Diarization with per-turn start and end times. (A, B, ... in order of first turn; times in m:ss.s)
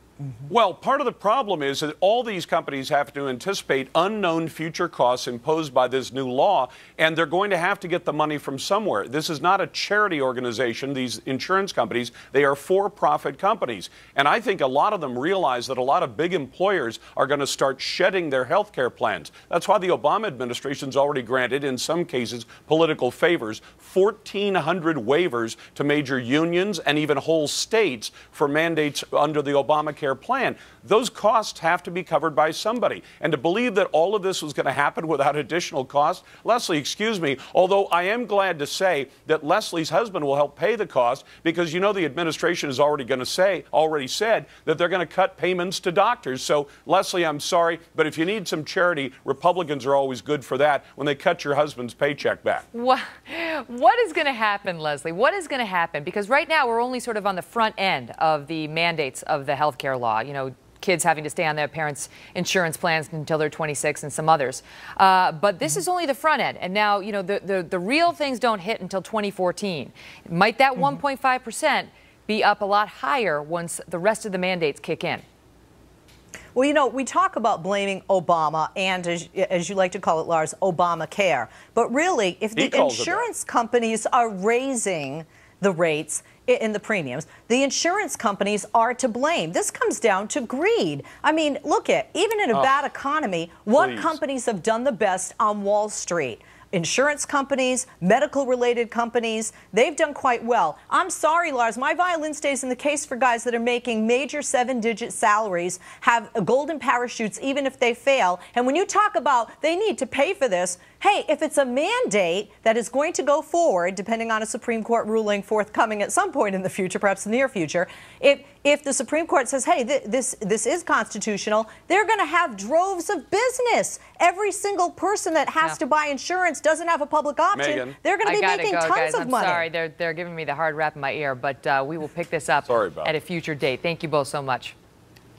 0:00.5-0:52.7 A
0:52.7-1:15.2 B
1:16.6-2:09.7 C
1:22.6-1:23.3 A
1:33.8-1:34.2 A
2:07.5-2:08.0 A
2:08.2-2:14.8 B
2:12.7-2:13.1 A